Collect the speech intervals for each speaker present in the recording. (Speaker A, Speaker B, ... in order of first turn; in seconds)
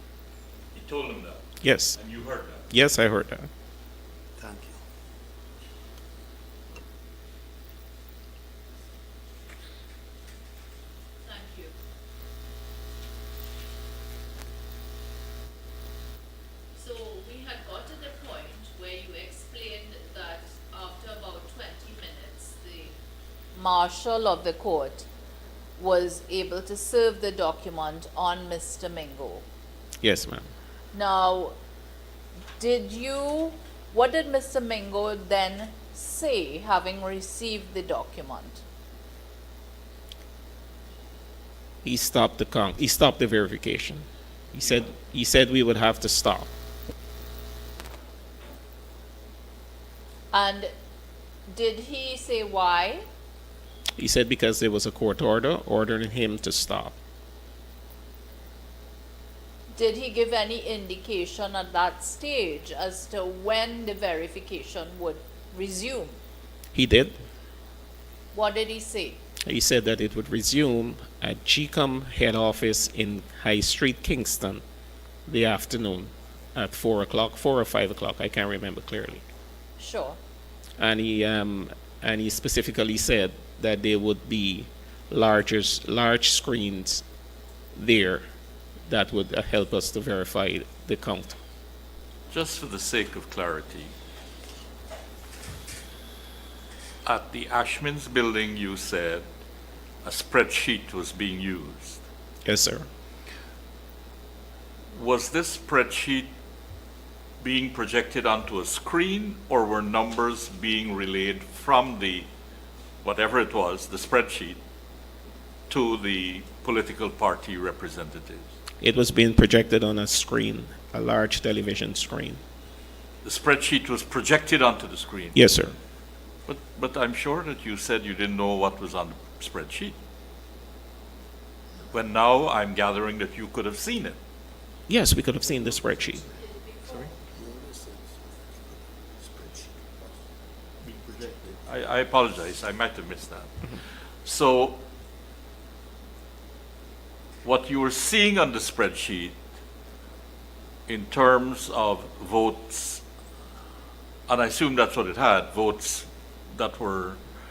Speaker A: 0.7-1.4, 1.9-2.6, 92.3-93.9, 97.0-99.3, 100.0-102.0, 104.9-106.3, 107.4-112.3, 113.0-114.6, 115.7-118.5, 123.2-125.4, 126.5-130.0, 131.9-134.2, 136.9-137.1, 140.8-143.5, 144.2-144.8, 147.4-149.4, 150.9-153.0, 154.3-157.2
Speaker B: 1.6-2.0, 2.7-3.5, 30.0-30.5, 41.8-46.5, 54.0-57.0, 66.7-67.2, 69.5-74.6, 75.3-79.2, 80.8-87.0, 87.7-88.2, 88.9-91.4, 102.5-102.9, 118.8-122.4, 125.3-125.8, 134.9-136.2
Speaker C: 4.4-4.8, 136.1-136.4, 137.3-140.2
Speaker D: 11.2-11.8, 16.8-22.9, 23.5-25.1, 25.8-29.4, 30.9-31.6, 32.6-38.6, 50.3-50.7, 51.5-53.0, 59.7-66.2, 68.3-69.2, 79.8-80.2